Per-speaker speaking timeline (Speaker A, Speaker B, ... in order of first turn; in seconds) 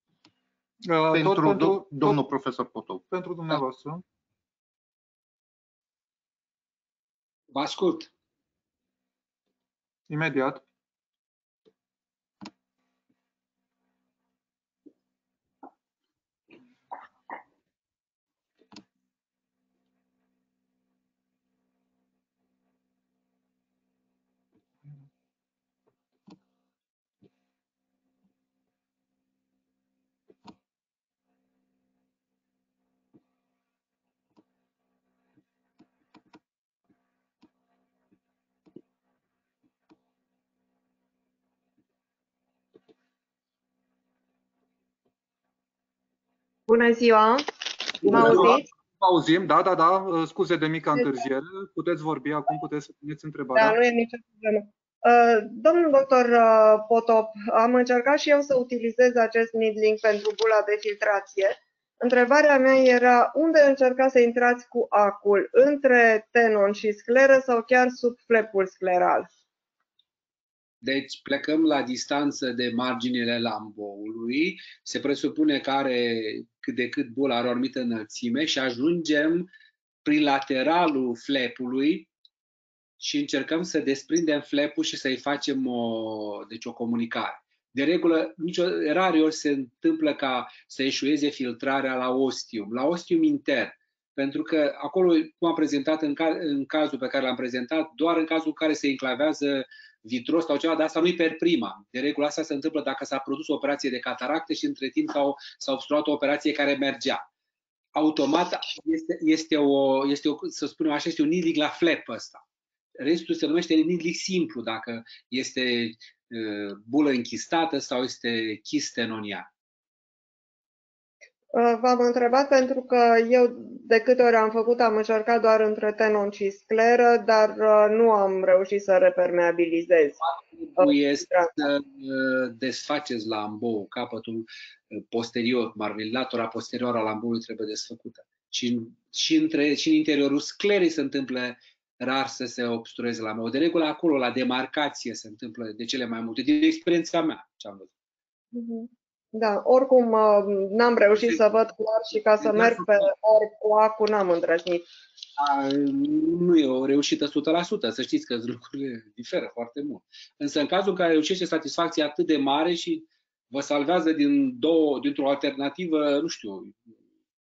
Speaker A: 0.9-2.2, 3.1-4.0, 10.1-10.6, 48.0-53.8
Speaker B: 1.1-3.6
Speaker C: 7.5-8.1, 70.8-79.5, 80.0-82.1, 83.0-107.3, 108.0-112.4, 113.0-119.5, 130.6-147.9, 152.4-152.9, 155.4-166.8
Speaker D: 46.7-47.5, 48.0-48.7, 53.5-69.3, 121.5-130.2, 130.8-131.5, 148.5-154.9